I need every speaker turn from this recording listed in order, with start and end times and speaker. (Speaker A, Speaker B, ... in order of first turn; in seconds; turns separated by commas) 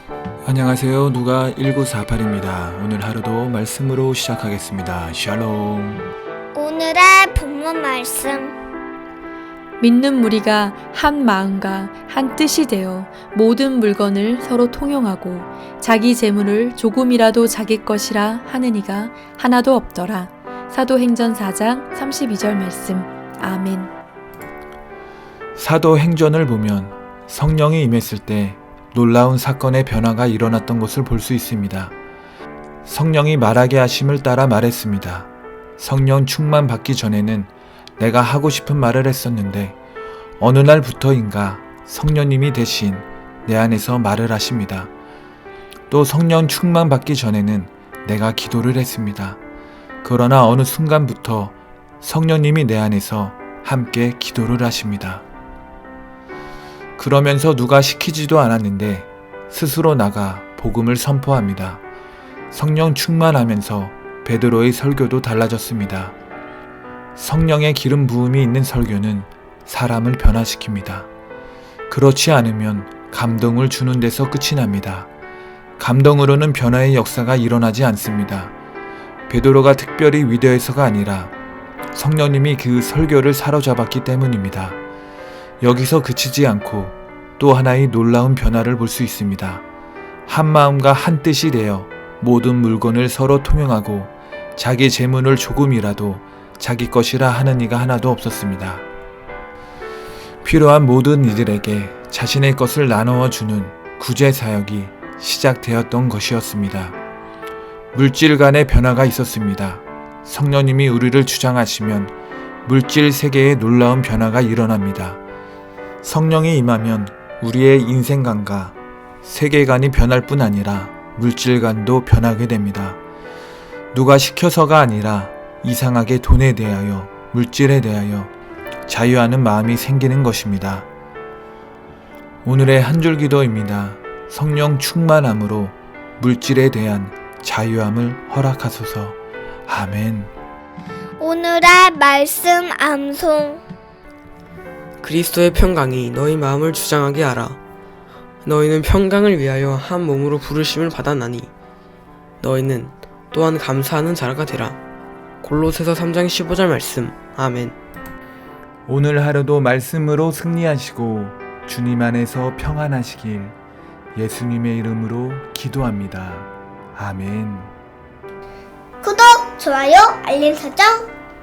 Speaker A: 0.5-6.1, Speaker B: 6.5-8.5, Speaker C: 9.8-23.9, Speaker A: 25.6-31.9, Speaker A: 32.9-39.8, Speaker A: 40.4-44.9, Speaker A: 45.9-49.4, Speaker A: 50.0-55.2, Speaker A: 57.0-61.8, Speaker A: 62.5-66.1, Speaker A: 67.2-71.1, Speaker A: 71.9-75.1, Speaker A: 75.8-78.5, Speaker A: 79.3-81.3, Speaker A: 81.9-84.8, Speaker A: 85.6-89.6, Speaker A: 90.3-98.8, Speaker A: 100.4-107.0, Speaker A: 107.9-112.1, Speaker A: 112.7-115.2, Speaker A: 116.0-123.0, Speaker A: 123.9-128.3, Speaker A: 128.9-130.9, Speaker A: 132.4-140.3, Speaker B: 141.2-143.6, Speaker D: 145.0-147.6, Speaker D: 148.4-151.5, Speaker D: 152.4-154.8, Speaker D: 155.4-157.8, Speaker A: 158.8-163.6, Speaker A: 164.2-167.7, Speaker B: 169.0-171.1